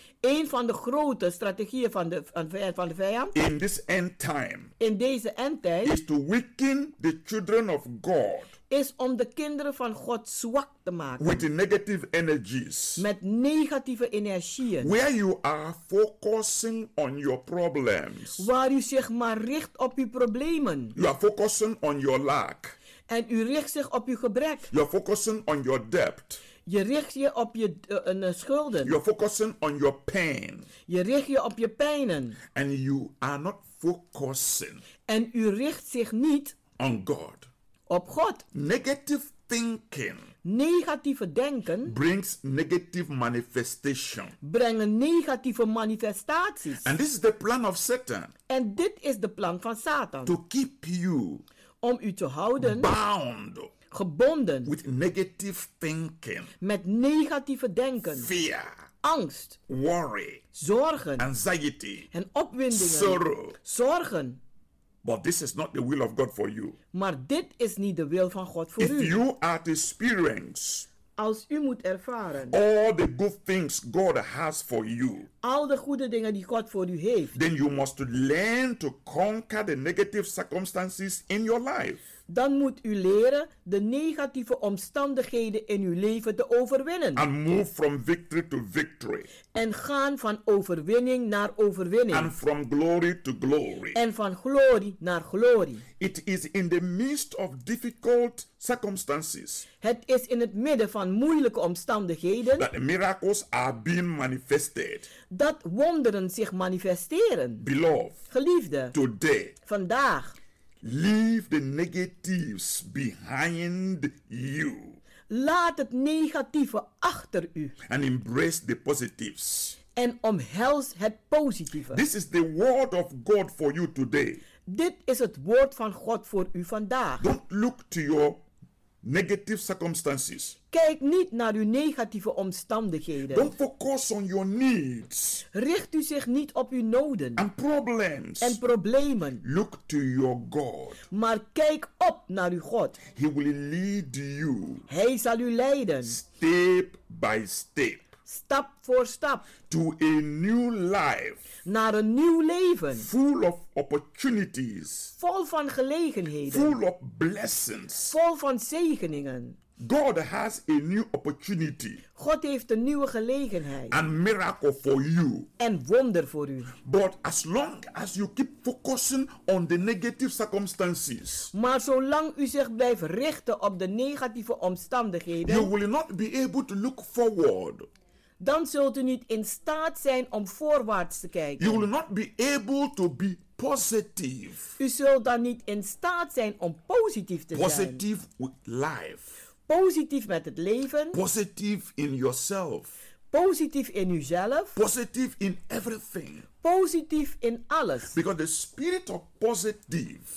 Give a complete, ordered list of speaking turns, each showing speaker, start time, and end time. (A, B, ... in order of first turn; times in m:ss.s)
0:00.2-0:03.3 A
0:03.3-0:04.7 B
0:04.8-0:05.9 A
0:05.8-0:08.5 B
0:08.7-0:11.4 A
0:11.2-0:13.0 B
0:13.0-0:14.9 A
0:14.8-0:18.5 B
0:18.4-0:21.0 A
0:20.9-0:22.8 B
0:23.1-0:24.7 A
0:24.7-0:26.4 B
0:26.6-0:28.9 A
0:28.8-0:30.7 B
0:30.9-0:32.4 A
0:32.5-0:34.8 B
0:35.0-0:36.6 A
0:36.8-0:37.5 B
0:37.9-0:38.4 A
0:38.5-0:40.3 B
0:40.4-0:41.9 A
0:41.8-0:44.3 B
0:44.4-0:46.9 A
0:46.8-0:48.3 B
0:48.5-0:50.3 A
0:50.2-0:51.4 B
0:51.8-0:52.9 A
0:52.6-0:53.7 B
0:53.9-0:54.7 A
0:54.6-0:56.5 B
0:56.6-0:58.3 A
0:58.2-0:58.7 B
0:59.0-0:59.6 A
0:59.7-1:00.4 B
1:00.6-1:01.2 A
1:01.2-1:02.1 B
1:02.1-1:04.4 A
1:02.7-1:03.6 B
1:05.0-1:06.8 B
1:06.9-1:09.1 A
1:08.8-1:10.9 B
1:11.2-1:12.6 A
1:12.5-1:15.3 B
1:15.4-1:17.3 A
1:17.3-1:22.0 B
1:22.3-1:27.2 A
1:27.2-1:29.3 B
1:29.5-1:32.3 A
1:32.1-1:34.0 B
1:33.9-1:35.8 A
1:36.0-1:39.6 B
1:39.8-1:42.7 A
1:42.6-1:45.1 B
1:45.3-1:47.6 A
1:47.6-1:48.2 B
1:48.3-1:48.9 A
1:48.9-1:49.6 B
1:49.7-1:50.3 A
1:50.8-1:55.0 B
1:55.3-1:57.7 A
1:57.9-1:59.8 B
1:59.9-2:02.0 A
2:01.9-2:04.4 B
2:04.6-2:07.2 A
2:07.2-2:08.4 B
2:09.0-2:10.6 B
2:10.7-2:13.5 A
2:13.3-2:15.4 B
2:15.5-2:17.4 A
2:17.4-2:18.6 B
2:18.4-2:19.4 A
2:19.4-2:21.0 B
2:21.1-2:23.0 A
2:23.0-2:24.8 B
2:24.9-2:26.2 A
2:26.1-2:28.1 B
2:28.3-2:29.5 A
2:29.7-2:31.4 B
2:31.6-2:33.1 A
2:33.0-2:35.1 B
2:35.2-2:36.8 A
2:36.5-2:38.2 B
2:38.1-2:39.6 A
2:39.8-2:42.0 B
2:42.2-2:44.0 A
2:43.9-2:45.5 B
2:45.6-2:46.7 A
2:46.8-2:51.5 B
2:51.5-2:55.7 A
2:55.4-2:57.9 B
2:58.4-3:01.9 A
3:01.6-3:04.7 B
3:04.8-3:08.0 A
3:07.5-3:09.3 B
3:09.7-3:11.2 A
3:11.1-3:12.9 B
3:13.3-3:14.8 A
3:14.8-3:16.5 B
3:16.6-3:18.1 A
3:18.1-3:20.2 B